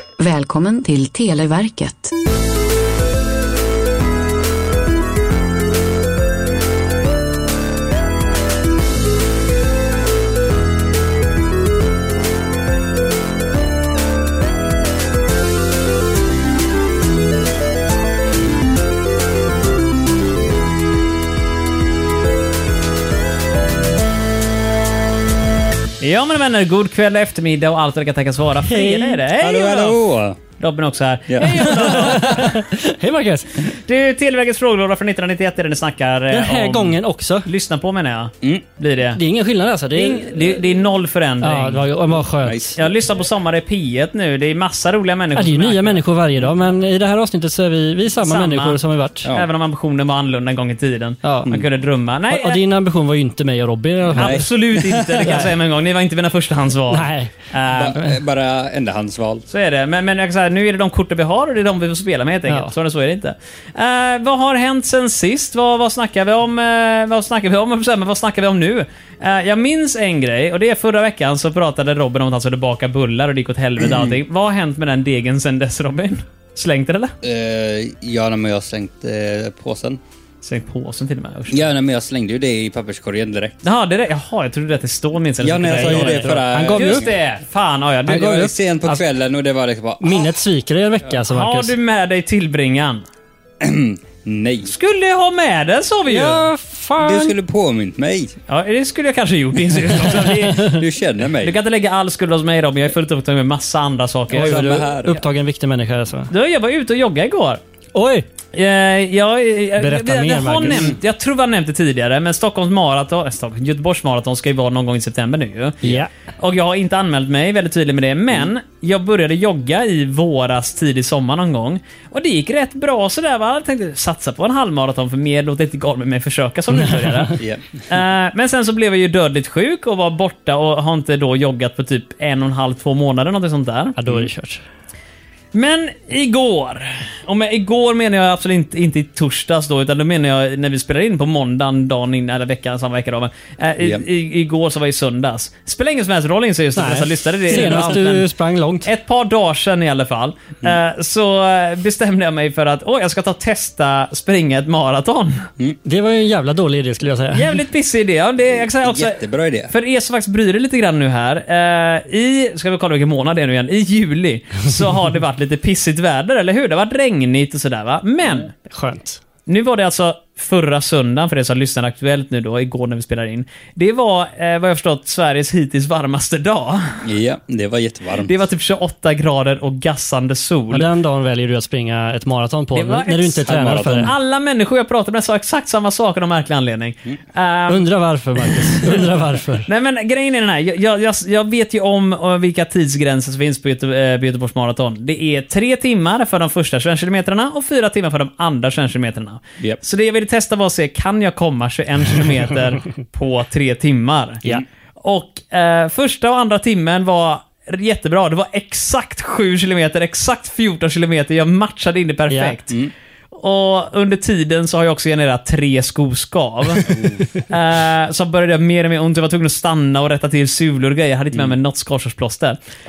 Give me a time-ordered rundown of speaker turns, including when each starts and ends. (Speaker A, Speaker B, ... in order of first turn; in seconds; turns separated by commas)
Speaker A: 0.2-2.1, Speaker B: 26.0-30.0, Speaker C: 28.6-29.2, Speaker D: 29.3-30.4, Speaker B: 30.6-32.7, Speaker D: 31.3-31.8, Speaker C: 31.6-33.6, Speaker B: 33.8-39.2, Speaker C: 36.3-37.5, Speaker C: 39.1-40.6, Speaker B: 39.9-41.8, Speaker C: 41.4-42.8, Speaker D: 42.4-42.8, Speaker B: 42.8-46.0, Speaker C: 45.3-49.3, Speaker B: 48.2-52.6, Speaker C: 51.2-51.6, Speaker C: 52.3-54.5, Speaker D: 54.1-55.5, Speaker B: 54.1-58.0, Speaker C: 56.9-57.3, Speaker D: 57.7-59.5, Speaker B: 59.5-77.1, Speaker C: 62.5-62.7, Speaker D: 77.2-80.0, Speaker B: 80.4-81.7, Speaker D: 81.5-83.6, Speaker B: 83.6-89.0, Speaker D: 85.4-87.1, Speaker C: 85.7-87.1, Speaker C: 88.1-88.5, Speaker D: 88.1-90.3, Speaker C: 90.0-91.8, Speaker B: 91.2-93.0, Speaker D: 93.6-94.7, Speaker B: 94.7-96.5, Speaker C: 96.0-97.3, Speaker D: 97.0-98.3, Speaker B: 98.5-100.8, Speaker D: 100.5-101.5, Speaker B: 101.4-104.7, Speaker C: 104.3-106.3, Speaker D: 104.3-105.2, Speaker B: 106.3-107.6, Speaker C: 107.9-108.3, Speaker B: 108.5-134.0, Speaker C: 109.8-111.0, Speaker C: 115.8-116.1, Speaker D: 127.3-127.6, Speaker C: 133.9-134.6, Speaker B: 135.5-148.2, Speaker D: 143.8-144.0, Speaker C: 146.8-148.9, Speaker B: 148.8-155.5, Speaker C: 155.8-157.6, Speaker B: 157.3-168.5, Speaker D: 158.6-159.7, Speaker C: 168.6-169.2, Speaker B: 169.5-177.0, Speaker D: 177.0-178.3, Speaker B: 178.2-180.9, Speaker C: 180.7-184.1, Speaker B: 182.7-187.8, Speaker D: 183.4-184.1, Speaker C: 187.7-189.7, Speaker B: 188.4-189.0, Speaker B: 189.6-204.5, Speaker B: 205.0-212.7, Speaker C: 212.3-212.6, Speaker B: 213.3-216.9, Speaker D: 216.9-217.2, Speaker B: 217.5-222.6